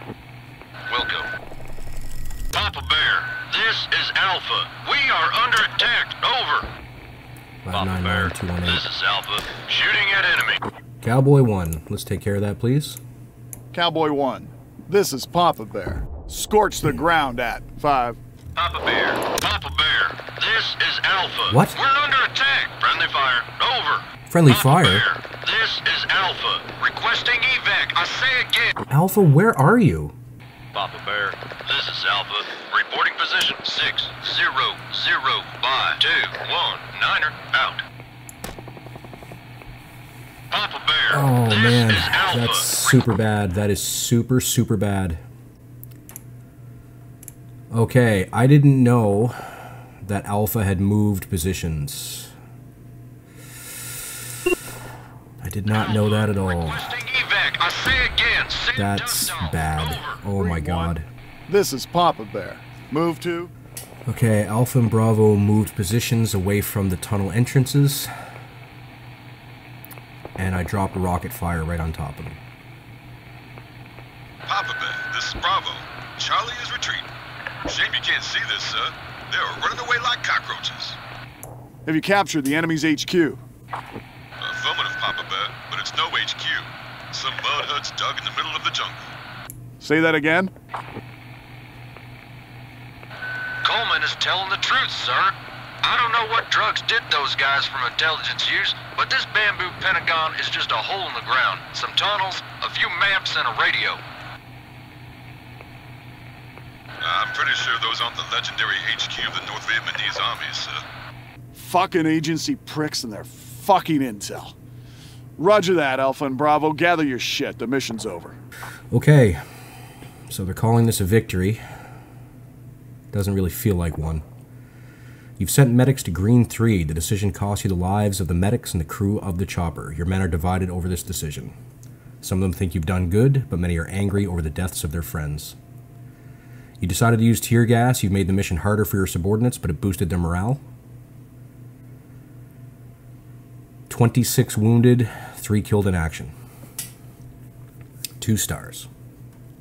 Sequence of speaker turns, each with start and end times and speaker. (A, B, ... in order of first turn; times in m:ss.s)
0:00.9-0:01.3 A
0:02.5-0:06.7 A
0:07.6-0:08.9 B
0:07.7-0:10.6 A
0:11.0-0:13.0 B
0:13.7-0:18.2 C
0:18.5-0:28.7 A
0:21.5-0:21.8 B
0:24.3-0:25.0 B
0:28.9-0:30.2 B
0:30.7-0:37.8 A
0:40.5-0:43.0 A
0:41.1-0:45.2 B
0:47.7-0:52.3 B
0:55.4-0:57.0 B
0:55.7-1:00.2 A
0:58.7-1:01.1 B
1:00.4-1:00.9 C
1:01.5-1:03.5 C
1:04.1-1:08.1 B
1:10.4-1:12.4 B
1:14.4-1:17.1 D
1:17.6-1:21.0 D
1:21.8-1:23.4 C
1:24.4-1:29.1 D
1:29.8-1:30.5 C
1:33.6-1:44.0 A
1:47.0-1:50.8 D
1:51.5-1:54.6 C
1:55.4-1:58.4 C
1:58.9-1:59.4 B
2:00.3-2:01.6 B
2:03.1-2:04.2 B
2:05.4-2:11.6 B
2:12.2-2:15.6 B
2:16.8-2:20.6 B
2:23.9-2:26.3 B
2:28.2-2:28.9 B